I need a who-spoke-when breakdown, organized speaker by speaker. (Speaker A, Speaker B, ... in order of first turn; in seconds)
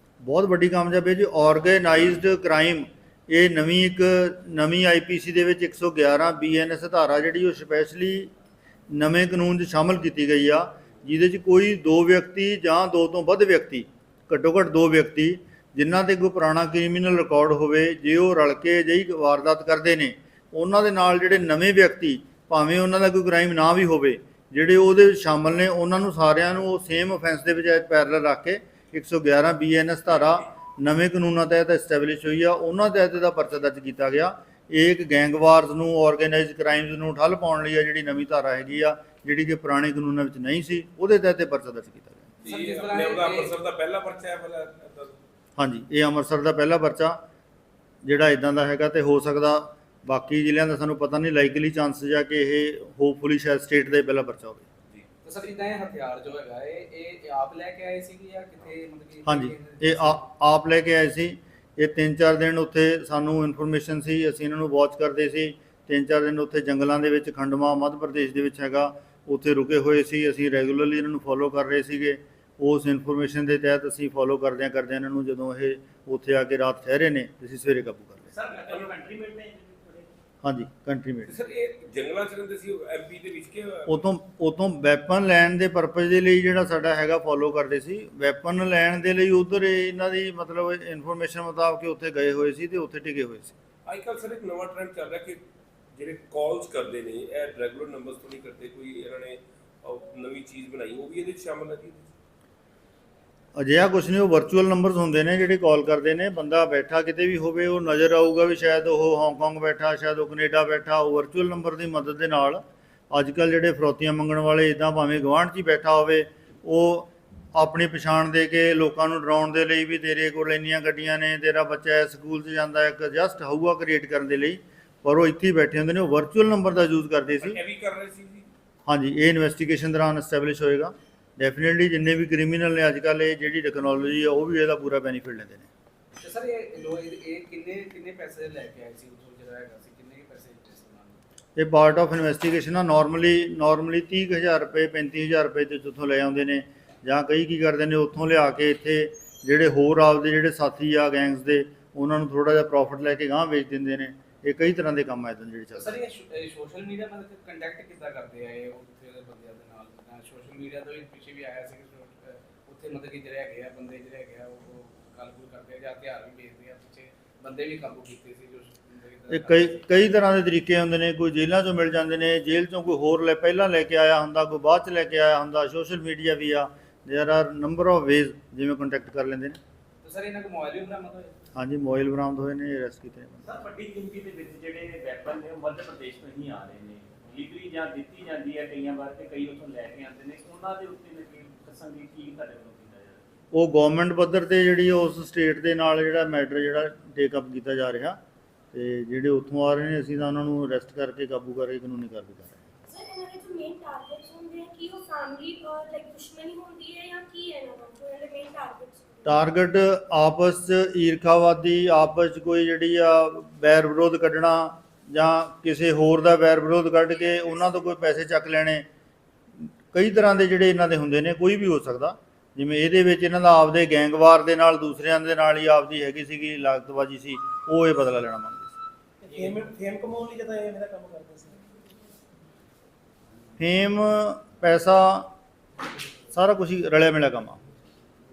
Speaker A: 0.2-8.3, 8.9-42.3, 45.6-47.2, 48.0-54.6, 59.3-78.3, 80.4-81.3, 83.9-93.5, 103.6-127.6, 128.9-135.7, 141.6-156.0, 169.3-179.6, 181.6-183.6, 193.5-198.2, 198.7-202.6, 209.3-218.8, 219.9-228.7, 233.6-235.3, 236.3-237.6
Speaker B: 42.4-45.2, 78.5-79.0, 81.3-84.0, 93.9-95.4, 96.0-102.1, 127.4-128.5
Speaker C: 42.4-43.5, 55.2-60.2, 136.2-141.2, 155.8-169.8, 180.0-181.3
Speaker D: 78.3-80.1, 183.4-193.3
Speaker E: 202.9-209.4
Speaker F: 229.2-231.6